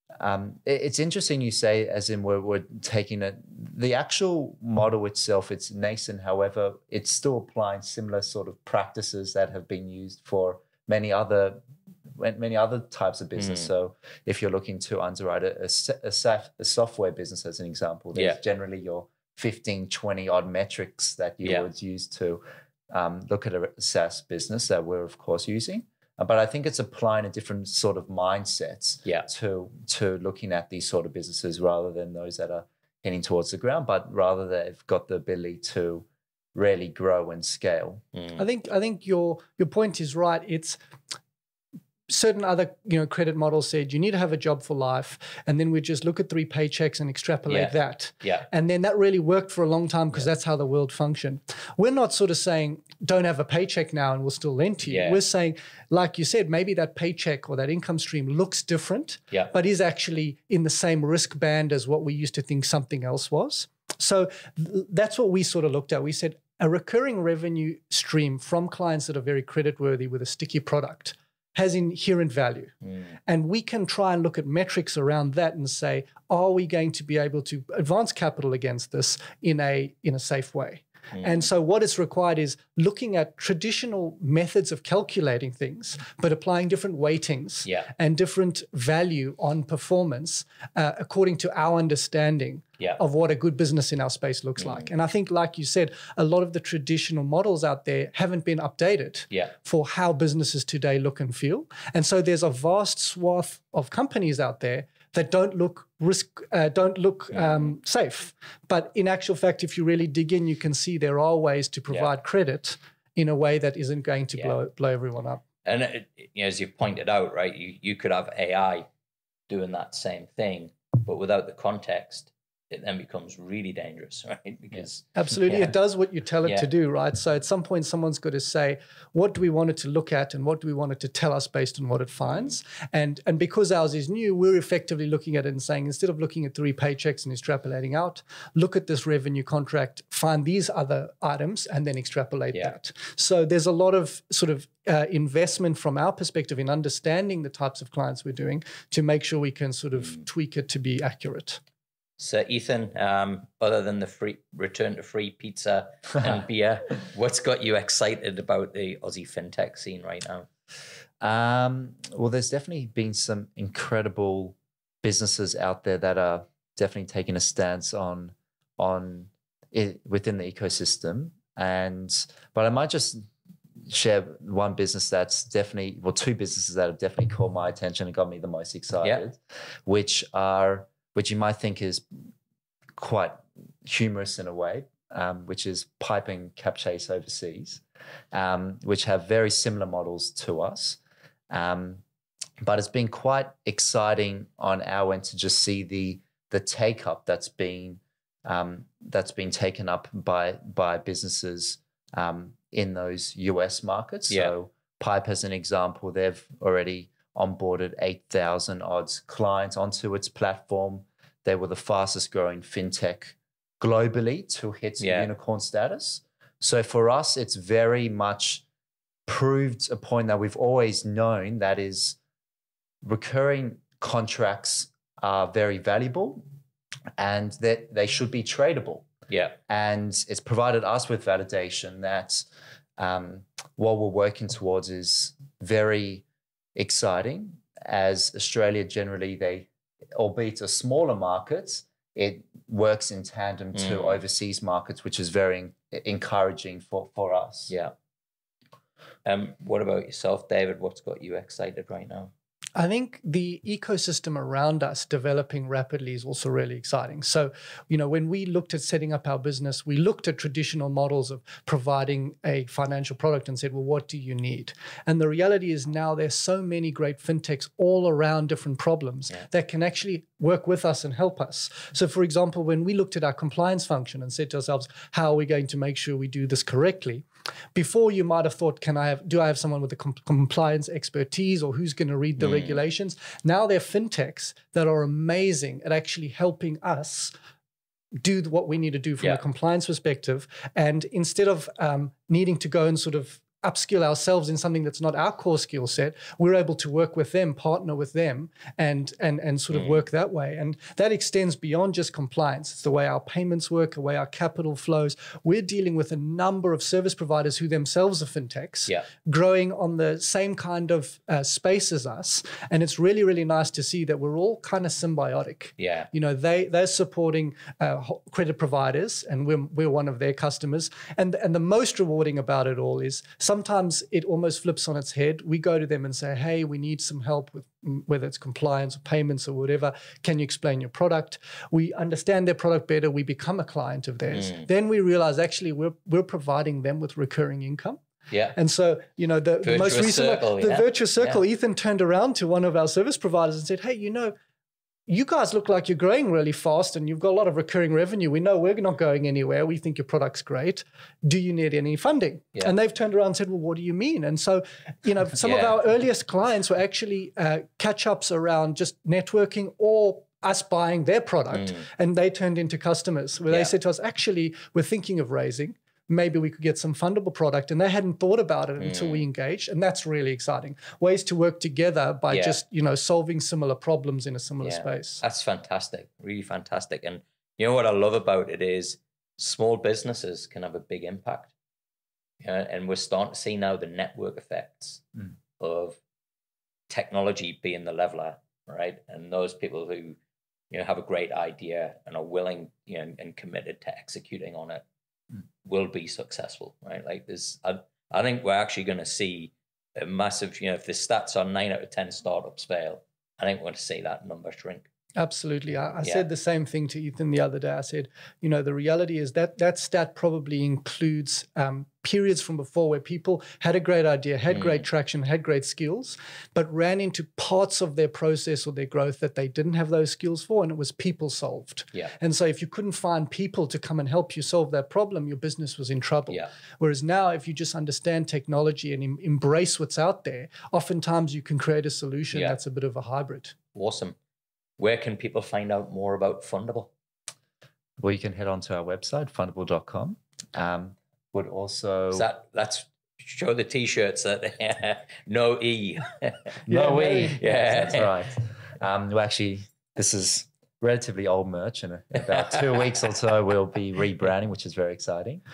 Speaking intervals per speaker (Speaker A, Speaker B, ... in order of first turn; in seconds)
Speaker A: 0.2-38.0, 161.2-173.3, 173.8-182.1, 183.0-191.0, 191.5-192.0, 192.6-218.6, 219.3-222.2, 223.0-226.4, 227.2-229.1, 229.7-247.7, 438.0-442.3, 446.7-455.4
Speaker B: 13.4-13.7, 38.1-38.4, 47.5-48.5, 54.9-55.2, 72.8-73.1, 81.1-81.5, 94.6-94.9, 107.3-107.7, 115.6-118.9, 119.5-125.7, 132.2-132.6, 152.2-160.5, 215.0-215.3, 229.3-229.6, 243.7-244.2, 249.2-252.3, 282.4-282.8, 299.7-300.0, 315.8-316.1, 334.3-334.7, 338.3-338.6, 339.6-341.4, 355.4-355.8, 361.5-361.8, 368.8-369.2, 372.3-372.6, 374.6-381.5, 382.4-386.0, 386.9-390.2, 390.7-394.8, 395.6-404.9, 414.5-414.8, 432.3-432.6, 433.7-434.1, 434.8-436.9, 442.1-448.1
Speaker C: 38.4-40.8, 42.1-72.7, 73.3-115.4, 125.1-151.6, 252.8-277.2, 277.7-287.3, 288.2-338.0, 338.5-344.3, 345.1-375.2, 405.1-433.5, 446.7-447.4